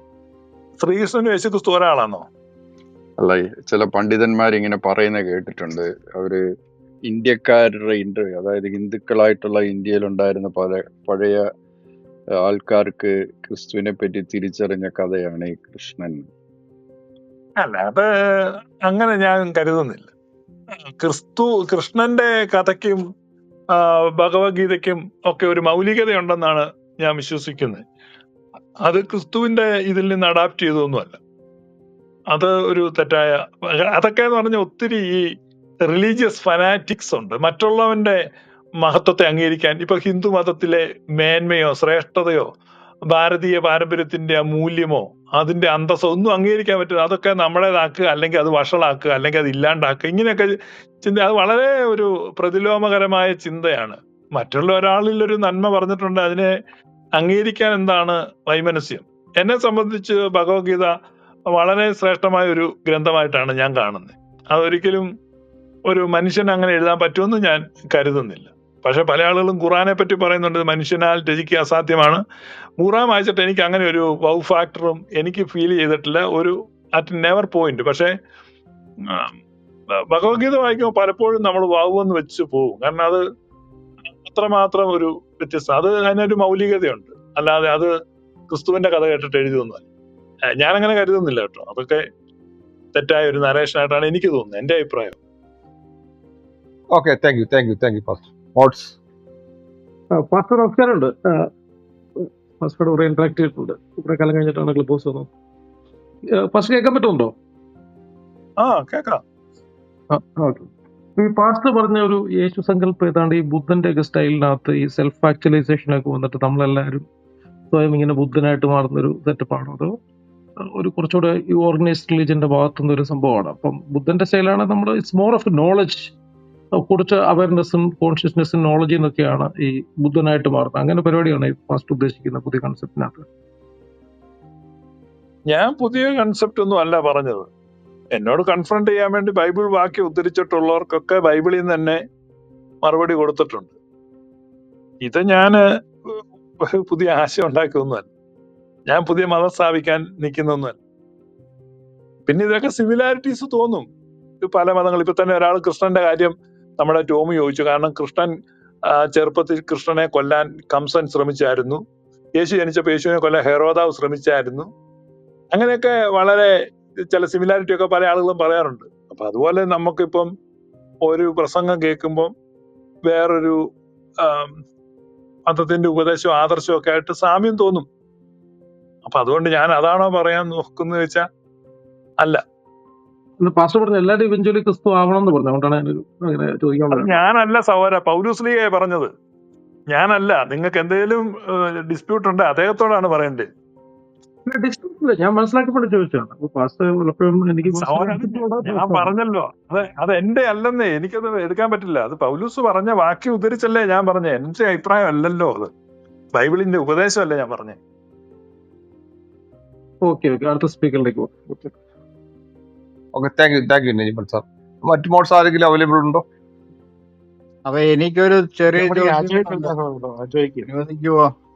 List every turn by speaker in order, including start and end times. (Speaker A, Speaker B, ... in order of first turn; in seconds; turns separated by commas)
Speaker A: 0.8-2.2, Speaker B: 3.2-6.4, Speaker B: 7.1-11.4, Speaker B: 12.4-16.3, Speaker A: 17.6-18.1, Speaker A: 18.9-20.1, Speaker A: 21.0-23.0, Speaker A: 23.7-27.8, Speaker A: 28.9-31.2, Speaker A: 32.3-35.2, Speaker A: 35.9-38.2, Speaker A: 38.8-42.5, Speaker A: 43.1-56.5, Speaker A: 57.2-60.9, Speaker A: 61.5-65.1, Speaker A: 65.9-72.2, Speaker A: 72.8-78.1, Speaker A: 80.1-83.2, Speaker A: 84.2-87.9, Speaker A: 88.5-89.8, Speaker A: 90.6-92.0, Speaker A: 92.9-95.2, Speaker C: 96.9-98.8, Speaker D: 100.1-101.5, Speaker D: 102.2-105.3, Speaker D: 106.4-107.3, Speaker A: 108.6-109.2, Speaker D: 110.1-117.1, Speaker D: 117.7-120.0, Speaker D: 120.8-126.1, Speaker D: 126.8-133.3, Speaker A: 135.5-137.5, Speaker A: 138.1-142.0, Speaker A: 142.8-143.8, Speaker A: 145.0-148.1, Speaker A: 148.9-150.8, Speaker A: 152.3-153.9, Speaker A: 154.4-158.3, Speaker A: 158.9-161.8, Speaker A: 162.4-164.7, Speaker A: 165.5-166.5, Speaker A: 167.1-170.3, Speaker A: 171.1-172.3, Speaker A: 173.1-173.6, Speaker A: 174.2-174.5, Speaker A: 175.5-177.9, Speaker A: 179.1-181.2, Speaker D: 183.4-187.2, Speaker A: 186.9-189.1, Speaker A: 189.9-193.5, Speaker D: 194.5-199.1, Speaker A: 197.7-205.7, Speaker A: 206.3-207.8, Speaker D: 210.0-211.7, Speaker C: 213.2-216.2, Speaker E: 217.7-219.8, Speaker D: 218.8-220.5, Speaker E: 220.6-221.3